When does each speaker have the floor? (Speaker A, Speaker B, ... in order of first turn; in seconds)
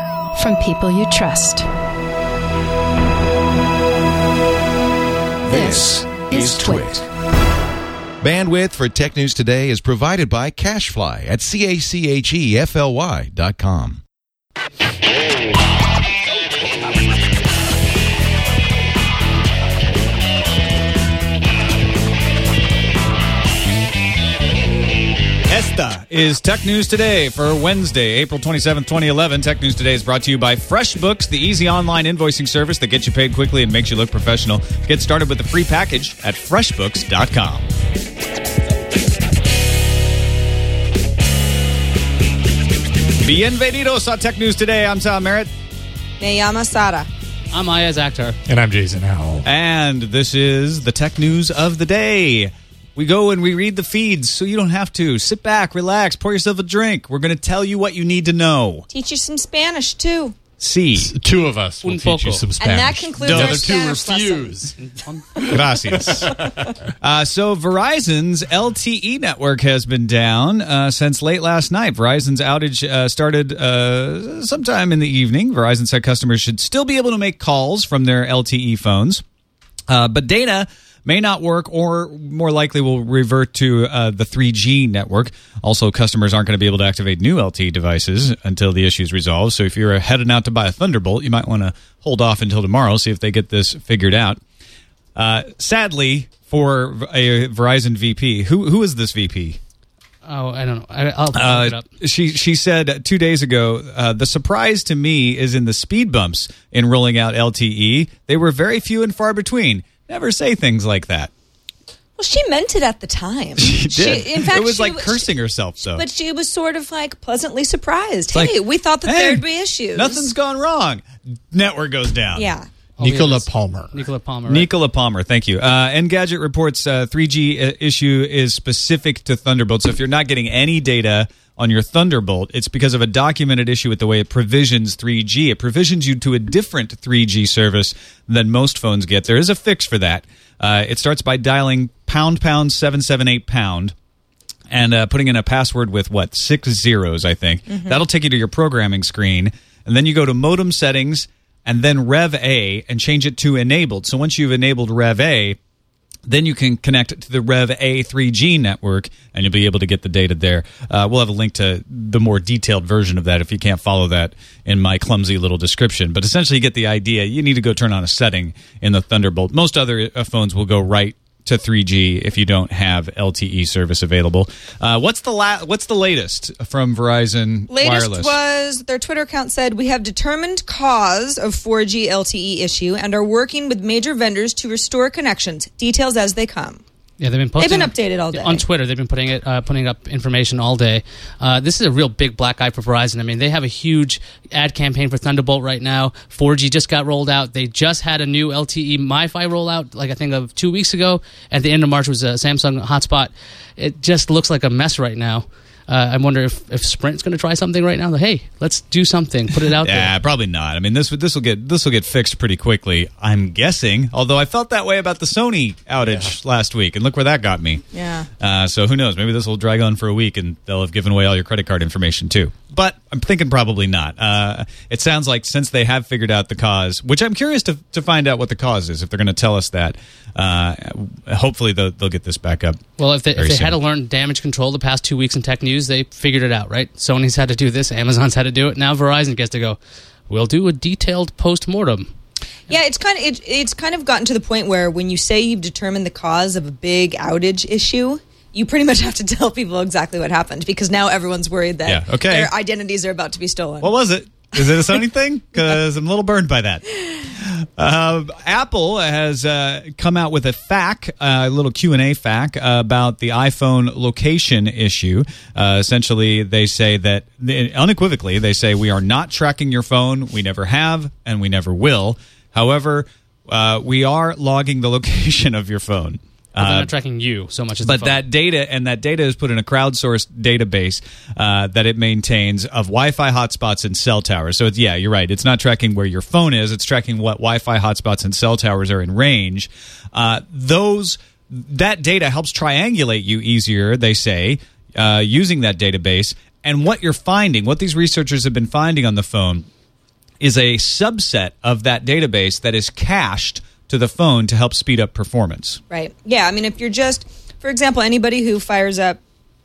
Speaker A: 0.4-1.7, 5.5-7.0
Speaker B: 5.4-7.0, 8.2-14.0
Speaker C: 25.5-37.7, 43.2-45.5, 49.5-58.9, 60.6-61.1, 63.2-63.7, 65.5-66.3, 67.0-79.2, 79.9-94.4, 95.2-99.6, 101.3-111.3, 113.6-116.0, 118.3-122.5, 124.5-143.9, 144.7-155.6, 156.2-178.4, 209.8-217.8, 218.4-232.8, 233.3-233.8, 251.9-252.5, 253.8-276.9, 277.8-299.7, 300.4-305.8
Speaker D: 46.2-47.1, 58.9-60.4, 62.6-64.7, 112.2-115.3, 115.8-120.3, 122.3-122.7, 147.7-148.0, 177.7-186.8, 187.6-188.6, 217.9-218.3, 242.7-253.9, 305.9-309.2
Speaker E: 47.5-48.4, 61.8-62.5, 64.8-65.5, 100.2-101.8, 123.0-124.7, 187.2-210.1, 233.0-239.8, 240.3-242.1, 276.6-278.2
Speaker F: 48.5-49.5, 61.0-64.8, 65.3-66.8, 123.0-124.0